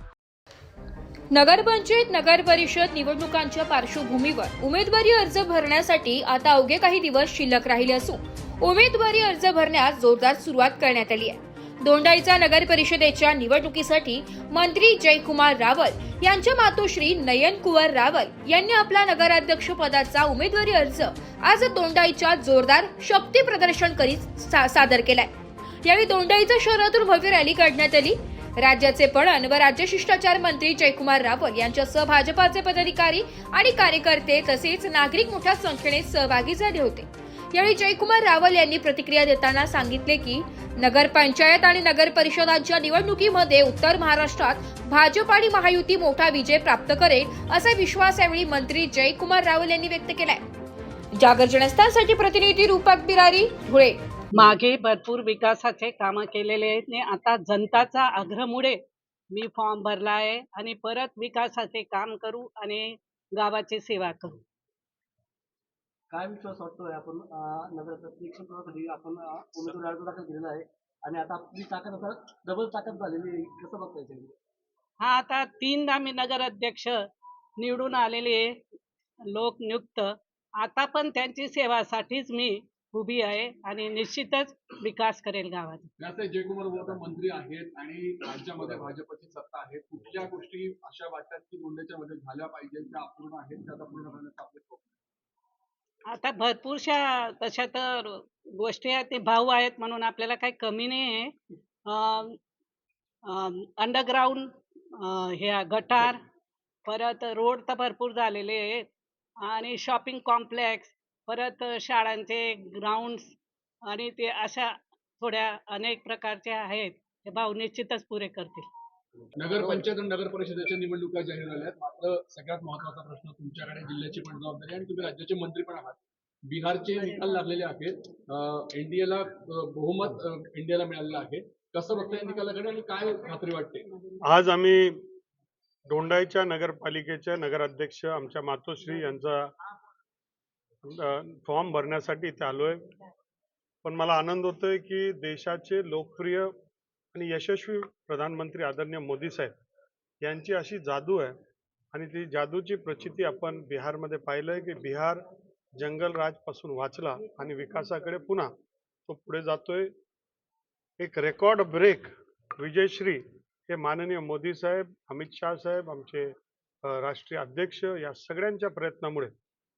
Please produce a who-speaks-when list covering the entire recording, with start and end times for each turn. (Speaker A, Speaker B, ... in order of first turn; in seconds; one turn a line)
Speaker A: 1.3-25.3
Speaker A: 25.8-50.4
Speaker A: 51.2-54.0
Speaker B: 54.3-58.8
Speaker B: 59.3-64.4
Speaker C: 66.1-74.3
Speaker B: 75.0-77.0
Speaker B: 77.6-78.6
Speaker B: 79.3-85.9
Speaker D: 86.0-94.8
Speaker B: 96.1-102.4
Speaker B: 103.2-106.2
Speaker B: 106.9-108.9
Speaker B: 109.4-118.7
Speaker D: 119.3-133.9
Speaker E: 134.2-135.0
Speaker E: 135.9-139.5
Speaker E: 140.9-142.9
Speaker E: 143.8-146.5
Speaker E: 147.1-149.5
Speaker E: 150.2-151.3
Speaker E: 151.9-155.2
Speaker E: 155.8-158.5
Speaker E: 159.1-159.9
Speaker E: 161.0-166.3
Speaker E: 166.9-169.3